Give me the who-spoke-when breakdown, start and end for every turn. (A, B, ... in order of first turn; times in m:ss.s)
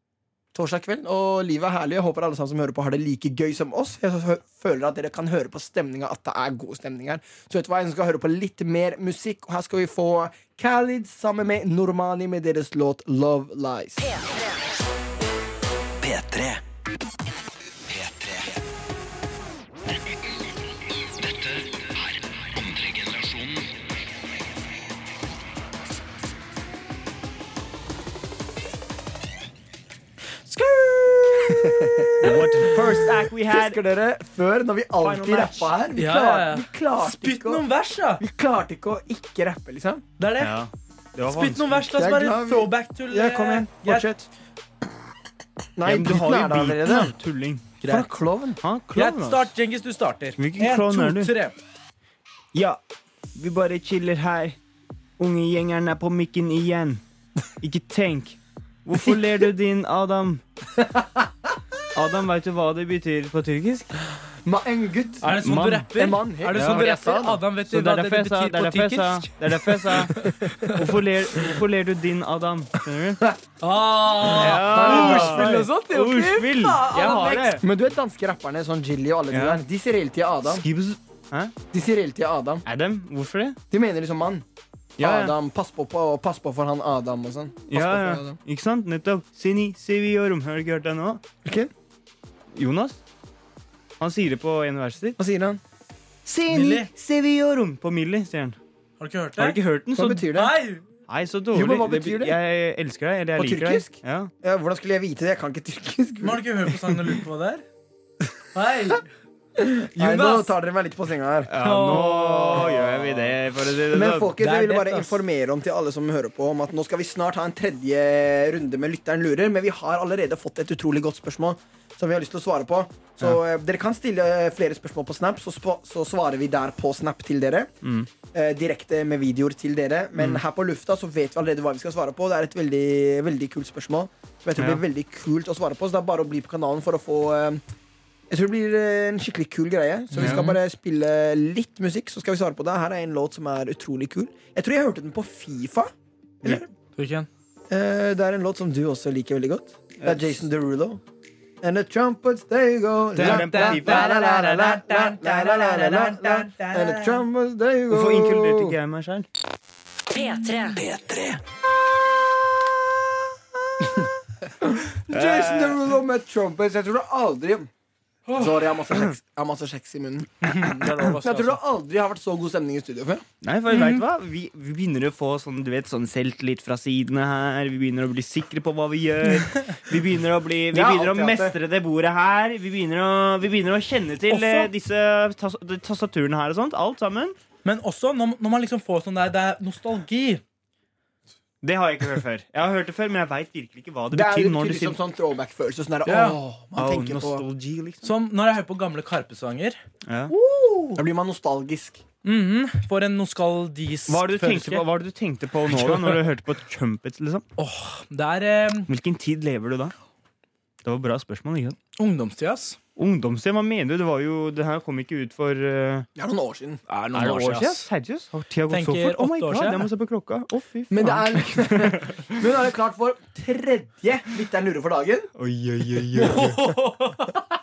0:00.5-0:14.1 A
0:14.1-0:14.4 B
0:16.0-0:16.6 B
0:17.9-0:18.5 B
0:21.2-0:23.7 B
0:30.5-0:32.7 C
0:31.5-0:32.9 A
0:32.2-0:33.8 D
0:33.5-0:37.6 A
0:35.0-0:35.7 D
0:35.9-0:38.2 C
0:38.2-0:40.0 A
0:40.2-0:40.5 C
0:40.4-0:41.9 D
0:41.3-0:44.1 C
0:42.0-0:44.3 A
0:45.8-0:47.1 A
0:45.8-0:47.7 D
0:47.8-0:48.1 C
0:47.8-0:48.6 A
0:48.6-0:49.5 D
0:48.9-0:51.6 C
0:50.4-0:51.3 D
0:52.5-0:52.8 D
0:53.4-0:54.6 D
0:55.2-0:57.0 D
0:57.6-1:00.4 D
0:59.0-0:59.3 A
1:00.8-1:01.3 A
1:01.9-1:04.0 D
1:04.4-1:05.4 A
1:05.2-1:10.8 C
1:05.4-1:05.9 D
1:06.0-1:07.4 A
1:06.5-1:06.9 D
1:07.7-1:13.2 D
1:10.2-1:10.5 A
1:13.6-1:17.6 C
1:14.2-1:15.7 A
1:14.3-1:17.6 D
1:17.6-1:20.6 A
1:19.3-1:19.6 D
1:20.5-1:21.5 D
1:21.7-1:22.6 A
1:22.7-1:23.6 D
1:23.7-1:24.4 A
1:25.0-1:25.3 D
1:25.0-1:28.4 A
1:27.7-1:31.2 D
1:31.4-1:31.7 A
1:32.6-1:33.0 D
1:34.0-1:35.2 D
1:35.2-1:35.6 A
1:36.3-1:38.6 D
1:36.5-1:36.9 C
1:39.0-1:39.6 C
1:39.4-1:40.3 D
1:40.0-1:40.6 A
1:40.3-1:40.8 C
1:41.1-1:44.3 D
1:41.5-1:42.4 A
1:43.4-1:46.4 A
1:46.2-1:47.6 C
1:48.5-1:49.1 C
1:49.6-1:51.5 A
1:50.0-1:50.5 C
1:51.5-1:54.3 D
1:51.6-1:53.0 C
1:52.7-1:53.2 A
1:53.9-2:07.7 A
1:54.4-1:55.2 C
2:07.8-2:08.1 D
2:08.3-2:17.6 A
2:10.2-2:10.4 D
2:18.3-2:25.9 A
2:20.1-2:20.6 C
2:20.2-2:20.5 D
2:26.4-2:26.7 A
2:26.9-2:27.3 C
2:27.7-2:31.0 A
2:31.6-2:38.8 A
2:33.2-2:37.2 C
2:33.2-2:34.1 D
2:37.9-2:39.3 D
2:40.1-2:41.4 B
2:43.8-2:47.7 A
2:45.1-2:45.9 D
2:48.3-2:53.2 A
2:50.4-2:51.6 C
2:53.4-3:07.4 D
2:53.7-2:54.0 C
3:00.7-3:01.6 A
3:04.3-3:04.7 C
3:07.6-3:10.4 C
3:11.6-3:15.0 D
3:14.1-3:17.4 A
3:16.1-3:16.4 C
3:16.8-3:18.1 D
3:18.0-3:21.0 C
3:20.1-3:20.3 D
3:21.0-3:22.0 A
3:22.2-3:24.8 C
3:24.1-3:27.4 D
3:25.7-3:26.2 C
3:27.6-3:28.9 C
3:28.9-3:29.9 D
3:30.8-3:31.8 D
3:32.0-3:32.8 C
3:33.0-3:36.1 D
3:36.2-3:36.8 A
3:36.9-3:37.9 C
3:37.1-3:42.4 D
3:38.7-3:39.9 C
3:40.9-3:45.3 A
3:45.4-3:46.7 D
3:46.2-3:47.4 C